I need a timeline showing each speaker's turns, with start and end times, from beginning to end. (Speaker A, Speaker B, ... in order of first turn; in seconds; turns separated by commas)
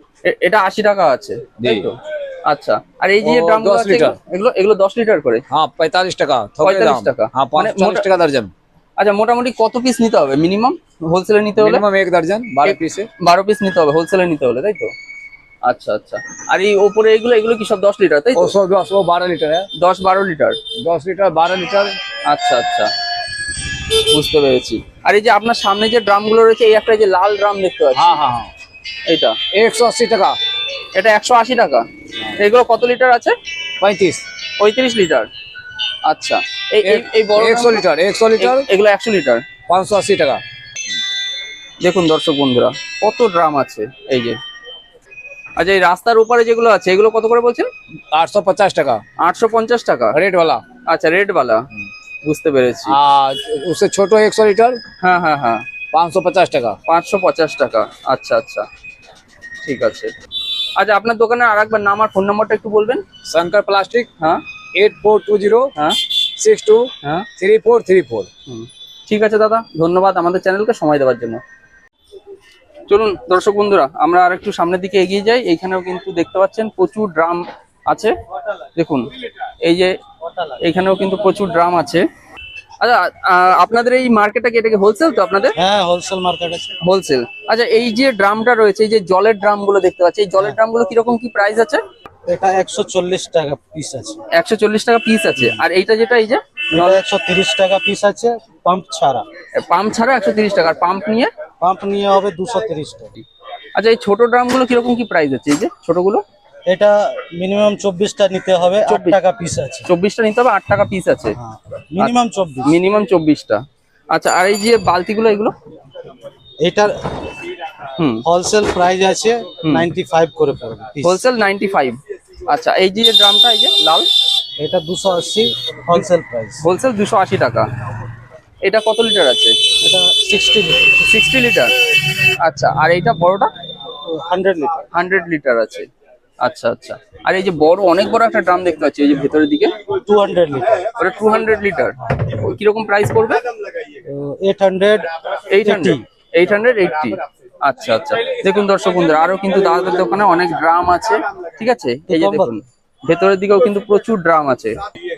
Speaker A: 0.2-5.4, Speaker B: 1.6-1.9, Speaker B: 3.2-4.2, Speaker B: 5.5-8.5, Speaker A: 6.6-8.0, Speaker A: 9.0-11.8, Speaker B: 11.6-13.1, Speaker A: 12.7-14.9, Speaker A: 15.7-18.5, Speaker B: 18.4-19.7, Speaker A: 19.8-20.6, Speaker B: 20.8-22.0, Speaker A: 22.3-22.9, Speaker A: 24.1-28.2, Speaker B: 28.0-28.5, Speaker A: 29.1-29.4, Speaker B: 29.5-30.4, Speaker A: 30.9-31.9, Speaker A: 32.4-33.4, Speaker B: 33.8-34.2, Speaker A: 34.6-35.3, Speaker A: 36.0-37.8, Speaker B: 36.8-38.6, Speaker A: 38.4-39.4, Speaker B: 39.7-40.4, Speaker A: 41.8-44.4, Speaker A: 45.6-47.7, Speaker B: 48.1-49.0, Speaker A: 49.2-50.2, Speaker B: 50.1-50.6, Speaker A: 50.9-51.7, Speaker A: 52.2-53.0, Speaker B: 52.9-54.8, Speaker A: 55.0-55.7, Speaker B: 55.9-56.8, Speaker A: 56.9-58.7, Speaker A: 59.6-60.1, Speaker A: 60.8-63.0, Speaker B: 63.3-64.1, Speaker B: 64.7-65.7, Speaker B: 66.4-68.3, Speaker A: 67.0-67.3, Speaker A: 68.5-71.4, Speaker A: 72.9-78.1, Speaker A: 78.8-79.1, Speaker A: 79.6-80.0, Speaker A: 80.6-82.0, Speaker A: 82.8-85.5, Speaker C: 85.6-86.7, Speaker A: 86.8-91.8, Speaker C: 92.3-94.2, Speaker A: 94.4-97.0, Speaker C: 95.4-95.6, Speaker C: 96.7-99.3, Speaker A: 99.5-101.3, Speaker C: 101.6-103.2, Speaker A: 103.8-106.2, Speaker C: 106.7-109.9, Speaker A: 108.9-109.2, Speaker A: 109.9-111.4, Speaker C: 111.3-112.8, Speaker A: 112.7-115.5, Speaker C: 116.6-116.9, Speaker A: 118.0-118.2, Speaker C: 118.2-121.2, Speaker A: 121.0-122.0, Speaker A: 122.5-124.1, Speaker C: 124.6-126.6, Speaker A: 126.6-127.7, Speaker A: 128.6-129.6, Speaker C: 129.8-131.0, Speaker A: 131.0-131.7, Speaker A: 132.4-133.5, Speaker C: 134.1-134.8, Speaker A: 134.9-135.9, Speaker A: 136.4-139.7, Speaker C: 139.9-140.9, Speaker A: 141.0-143.4, Speaker C: 144.1-145.1, Speaker A: 145.5-154.8, Speaker C: 145.6-146.0, Speaker C: 152.1-152.6